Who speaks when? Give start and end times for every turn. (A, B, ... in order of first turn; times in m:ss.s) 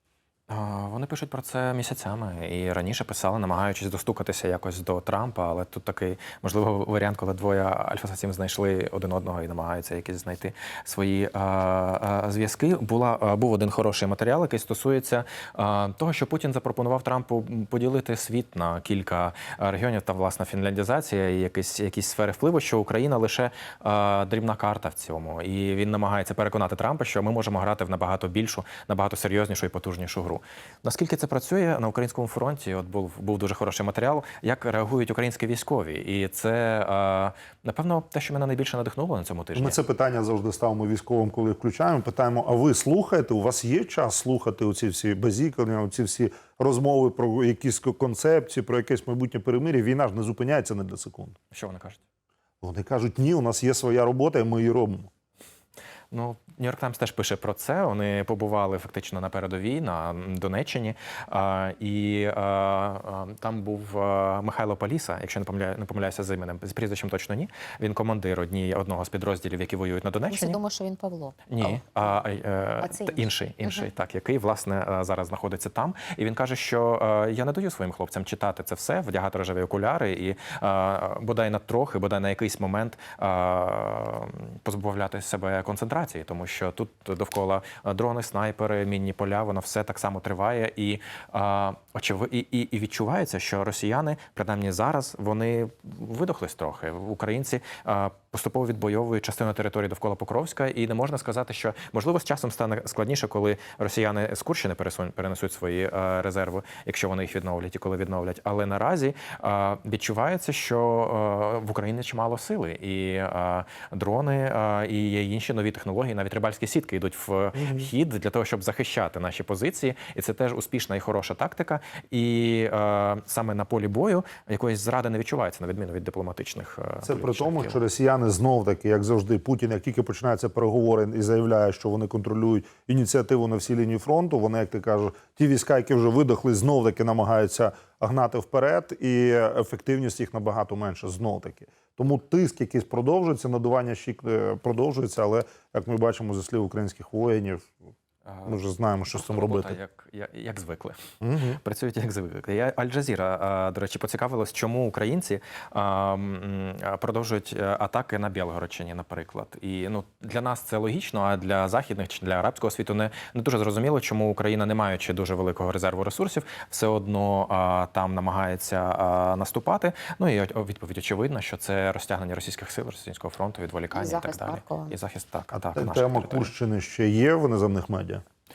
0:00.5-0:39.8 A
0:39.5-0:51.4 B
0:51.5-0:52.0 A
0:52.6-0:55.1 B
0:56.1-1:10.6 A
1:10.3-1:11.9 C
1:11.5-2:07.8 A
1:12.8-1:13.8 C
1:57.5-1:57.9 B
2:07.0-2:27.9 B
2:28.2-2:28.6 A
2:28.5-2:29.8 B
2:29.1-2:56.5 A
2:31.2-2:31.6 B
2:53.9-2:55.0 C
2:55.6-2:58.2 B